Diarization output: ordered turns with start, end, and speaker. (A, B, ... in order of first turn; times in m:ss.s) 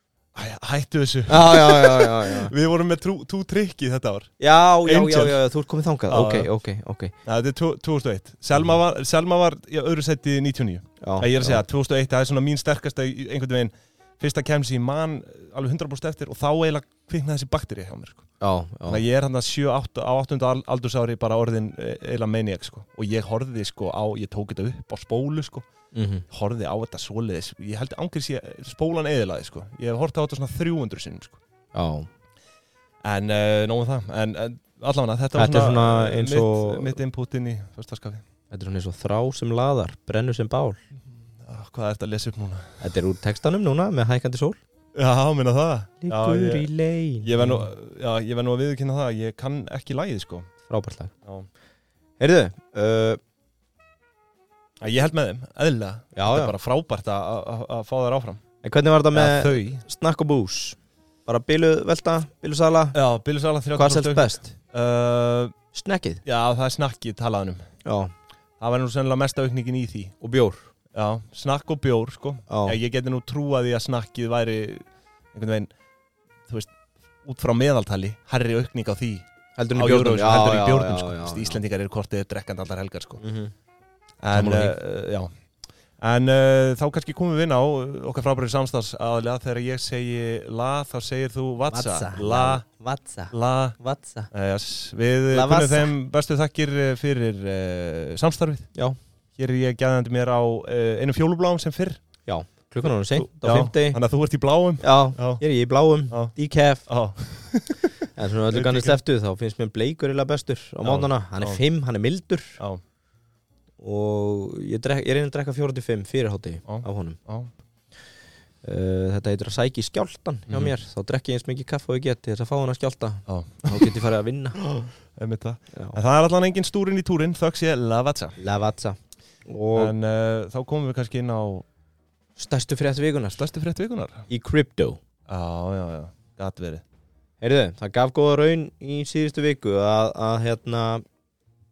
0:00.3-0:04.3 A
0:01.3-0:02.5 B
0:04.4-0:07.1 B
0:04.8-0:05.4 A
0:06.1-0:06.5 A
0:07.2-0:18.2 A
0:11.0-0:11.6 B
0:18.4-0:19.0 B
0:18.9-0:25.6 A
0:25.9-0:26.2 B
0:26.3-0:31.4 A
0:31.7-0:32.1 B
0:33.0-0:38.2 A
0:35.4-0:37.0 B
0:38.5-0:40.8 B
0:41.2-0:42.9 A
0:42.8-0:44.6 B
0:44.9-0:46.7 A
0:46.0-0:47.7 B
0:47.2-0:50.5 A
0:50.7-0:51.1 B
0:52.2-0:53.2 B
0:54.8-0:58.4 A
0:56.1-0:56.5 B
0:58.6-1:03.0 B
0:59.1-0:59.8 A
1:02.9-1:05.5 A
1:03.7-1:04.5 B
1:05.7-1:06.2 B
1:06.2-1:07.6 A
1:07.8-1:08.1 B
1:08.6-1:10.1 A
1:10.2-1:10.6 B
1:10.9-1:15.7 A
1:12.5-1:12.8 B
1:17.2-1:23.2 A
1:19.6-1:21.6 B
1:23.2-1:23.5 B
1:24.2-1:25.3 A
1:24.3-1:24.8 B
1:26.0-1:32.6 A
1:31.7-1:34.3 B
1:33.3-1:33.8 A
1:34.3-1:38.7 A
1:35.3-1:35.9 B
1:39.4-1:42.0 A
1:42.2-1:44.0 B
1:42.8-1:45.4 A
1:44.8-1:46.8 B
1:46.9-1:49.0 A
1:48.2-1:52.6 B
1:50.8-1:51.6 A
1:53.8-1:57.2 B
1:56.6-1:57.5 A
1:58.6-2:04.6 B
2:00.5-2:00.7 A
2:03.3-2:08.4 A
2:08.4-2:09.9 B
2:09.7-2:11.6 A
2:12.4-2:13.4 B
2:13.4-2:14.2 A
2:14.3-2:15.0 B
2:15.3-2:16.8 A
2:17.4-2:21.0 B